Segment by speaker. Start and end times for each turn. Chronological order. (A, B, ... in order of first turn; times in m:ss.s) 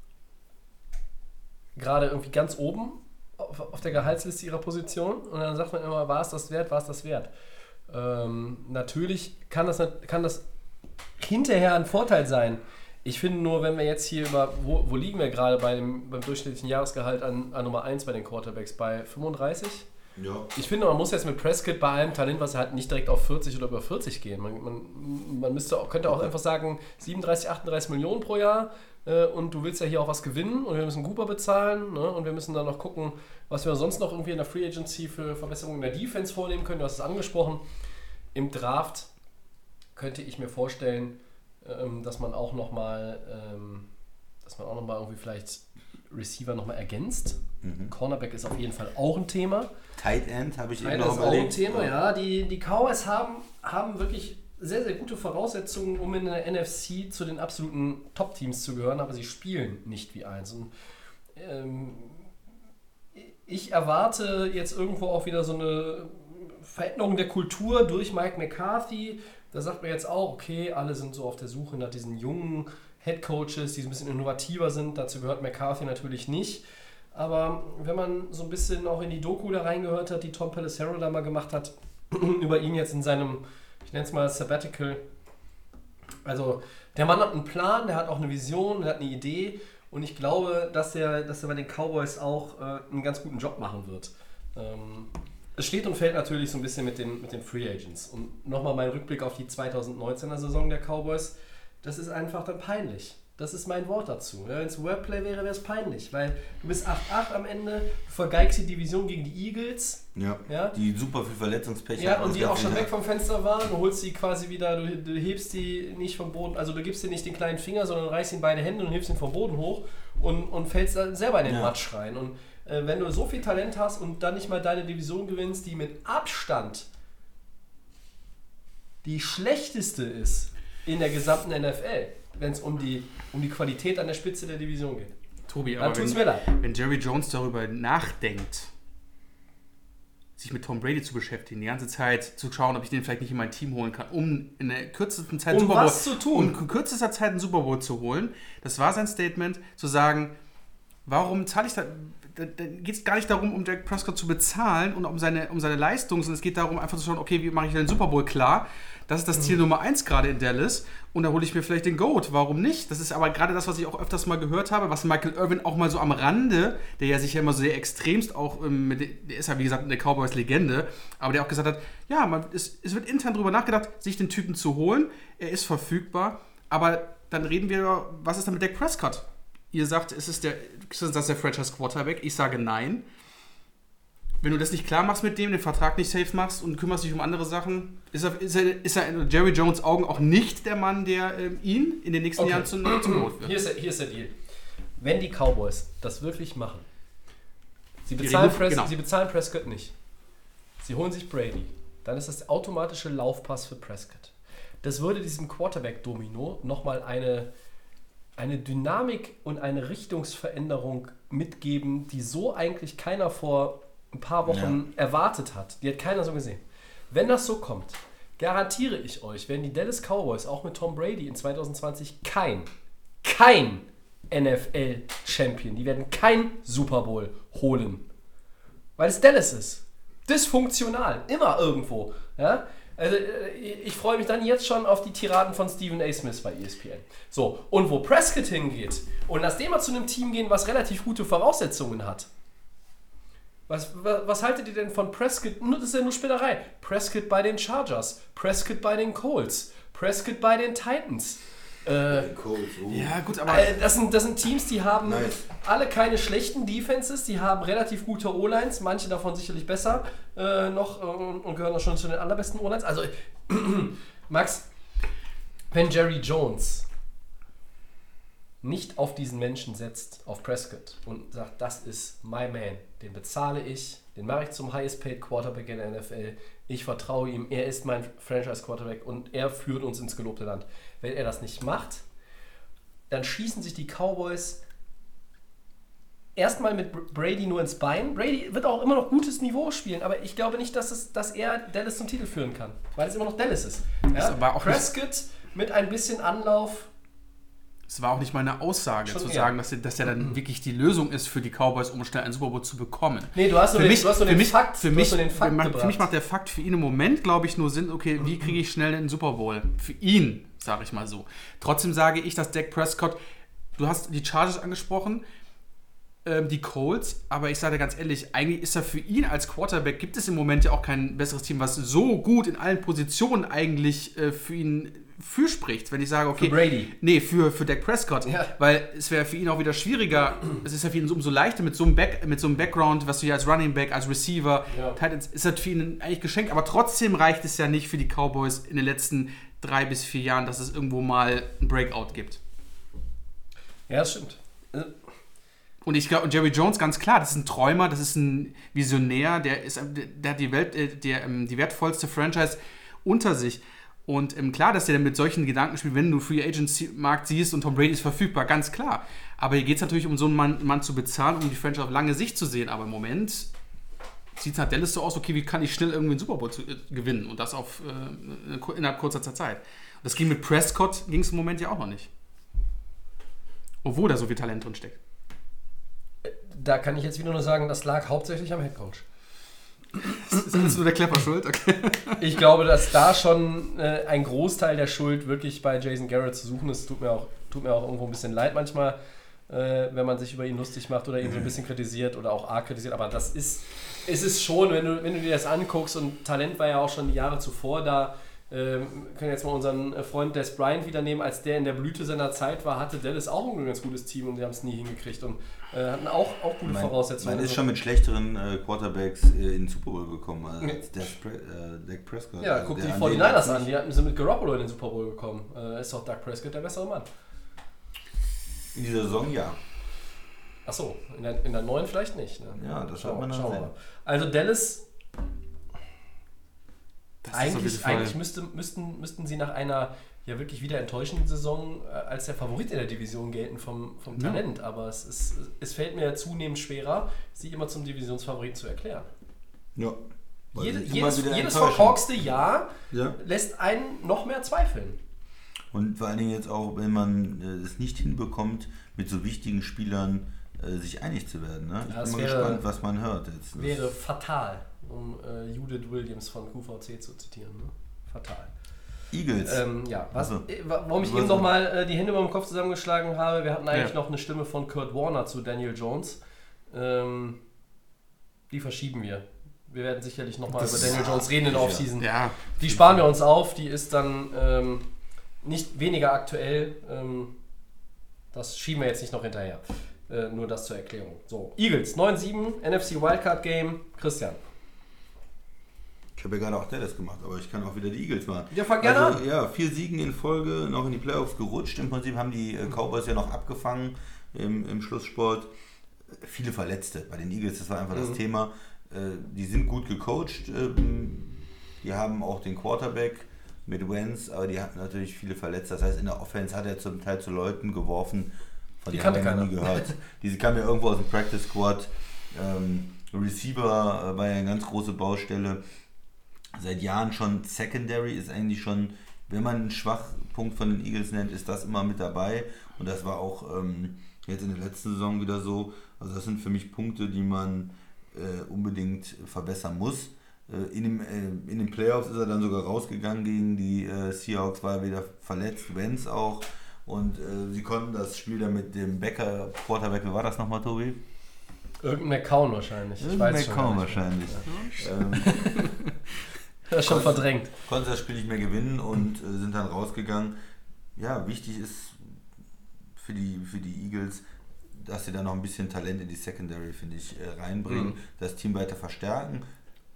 0:01.8-0:07.3 A
0:07.9-0:10.4 A
0:11.2-0:19.9 A
0:20.2-0:20.5 B
0:20.5-0:37.6 A
0:38.3-0:39.1 A
0:40.0-0:43.9 A
0:44.4-0:49.7 A
0:47.6-0:47.9 B
0:50.0-0:51.9 B
0:50.8-1:00.7 A
1:01.4-1:02.3 A
1:03.2-1:16.6 A
1:17.1-1:25.0 A
1:26.2-1:50.8 A
1:50.1-1:52.9 B
1:52.0-2:06.8 A
2:01.4-2:01.7 B
2:09.0-2:15.1 A
2:15.5-2:18.7 C
2:15.8-2:16.5 A
2:20.4-2:30.3 C
2:25.5-2:26.6 A
2:31.0-3:03.0 C
3:04.4-3:13.6 C
3:12.4-3:14.3 A
3:15.0-3:16.8 A
3:18.0-3:19.9 A
3:18.2-3:18.9 C
3:20.8-3:27.5 A
3:28.4-3:42.7 A
3:34.4-3:34.8 B
3:43.2-3:48.0 A
3:49.0-4:02.3 A
4:03.7-4:12.3 A
4:12.0-4:13.1 B
4:12.9-4:13.8 C
4:13.4-4:24.7 A
4:15.0-4:15.4 B
4:25.7-4:26.8 A
4:28.6-4:42.0 A
4:43.1-4:44.6 A
4:46.4-4:56.9 A
4:54.1-4:54.9 C
4:57.9-5:13.2 C
4:59.0-4:59.5 A
5:03.3-5:06.1 A
5:13.8-5:15.2 C
5:16.2-5:42.4 C
5:26.4-5:26.9 A
5:28.2-5:28.5 A
5:34.7-5:35.0 A
5:43.9-5:44.9 A
5:45.8-6:03.5 C
6:04.4-6:12.1 C
6:13.8-6:15.0 C
6:16.2-6:19.0 A
6:20.0-6:22.2 C
6:22.2-6:29.0 A
6:29.5-6:47.6 A
6:46.6-6:53.7 B
6:52.4-6:57.1 A
6:58.7-6:59.6 B
7:00.6-7:04.8 A
7:02.6-7:03.7 B
7:07.2-7:08.2 C
7:07.3-7:19.1 A
7:14.2-7:14.4 C
7:20.5-7:22.0 B
7:20.5-7:25.0 A
7:22.9-7:23.2 B
7:25.7-7:33.8 B
7:31.8-7:32.6 A
7:33.5-7:38.5 A
7:39.1-7:40.5 B
7:39.4-7:47.4 A
7:41.0-7:41.5 B
7:48.5-7:54.9 A
7:50.6-7:51.9 B
7:52.0-7:53.0 C
7:55.4-7:57.3 A
7:58.3-8:04.4 A
8:06.2-8:15.5 B
8:08.5-8:09.2 A
8:16.1-8:35.6 B
8:17.9-8:18.2 A
8:28.9-8:29.9 A
8:36.6-9:01.0 B
9:01.8-9:04.5 A
9:03.0-9:05.5 B
9:05.1-9:05.7 A
9:06.7-9:07.5 A
9:06.8-9:10.3 B
9:11.0-9:12.1 B
9:13.0-9:14.2 B
9:14.7-9:19.4 B